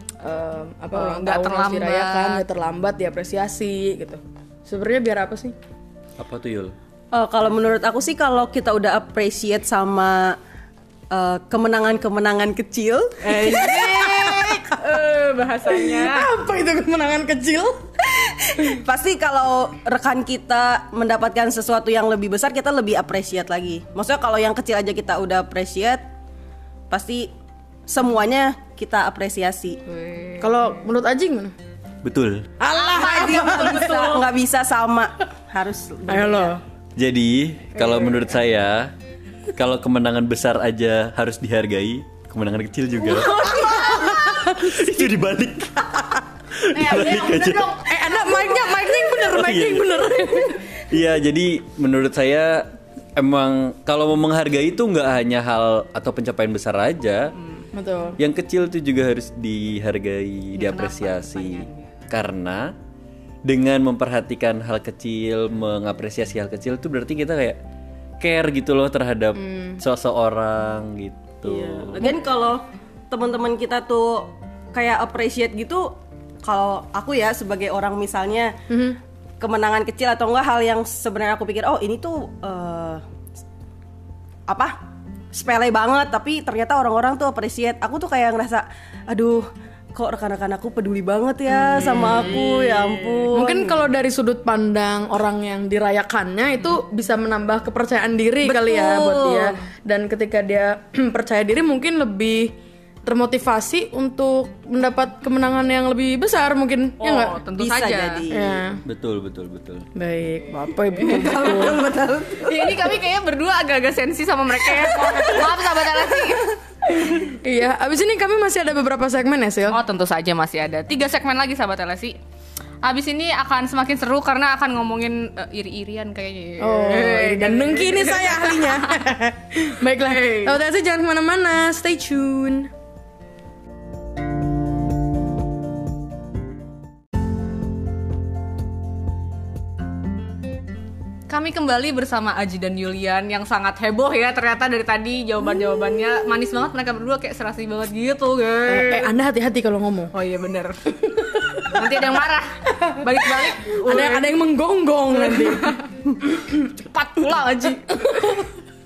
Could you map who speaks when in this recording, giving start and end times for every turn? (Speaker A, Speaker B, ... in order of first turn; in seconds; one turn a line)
Speaker A: 0.2-5.5
Speaker B: 0.9-2.4
Speaker C: 6.2-6.7
Speaker D: 7.1-10.4
Speaker D: 11.1-14.3
Speaker B: 13.2-16.3
Speaker A: 15.7-17.8
Speaker D: 18.6-26.0
Speaker D: 26.9-27.3
Speaker D: 27.9-29.8
Speaker B: 29.9-30.8
Speaker A: 30.4-31.5
Speaker C: 32.0-32.5
Speaker A: 32.6-34.3
Speaker D: 32.7-36.6
Speaker A: 36.1-36.6
Speaker C: 37.0-38.9
Speaker C: 39.5-47.7
Speaker A: 43.1-44.9
Speaker B: 46.7-48.9
Speaker A: 47.9-50.7
Speaker C: 49.2-50.3
Speaker C: 50.9-57.3
Speaker B: 57.3-57.7
Speaker A: 57.7-58.2
Speaker C: 58.2-62.7
Speaker B: 60.5-62.0
Speaker C: 63.4-67.6
Speaker C: 68.2-72.1
Speaker A: 69.4-69.8
Speaker D: 71.4-78.6
Speaker A: 78.7-79.0
Speaker D: 79.4-83.0
Speaker D: 84.5-84.8
Speaker D: 85.3-93.8
Speaker A: 91.7-92.5
Speaker B: 91.8-92.6
Speaker A: 93.3-102.5
Speaker D: 98.4-99.6
Speaker A: 103.0-107.4
Speaker B: 107.0-108.3
Speaker D: 107.5-108.6
Speaker A: 108.3-108.8
Speaker C: 108.8-109.9
Speaker A: 109.9-111.9
Speaker B: 111.0-111.7
Speaker D: 111.0-112.9
Speaker B: 112.4-116.6
Speaker A: 116.9-119.8
Speaker B: 119.7-122.2
Speaker B: 122.8-129.0
Speaker A: 126.6-132.7
Speaker B: 130.0-130.6
Speaker B: 141.3-149.1
Speaker A: 148.7-150.1
Speaker B: 150.1-150.9
Speaker A: 151.1-151.9
Speaker B: 151.6-154.3
Speaker A: 152.7-156.7
Speaker B: 155.3-155.8
Speaker B: 156.8-158.0
Speaker A: 157.7-158.5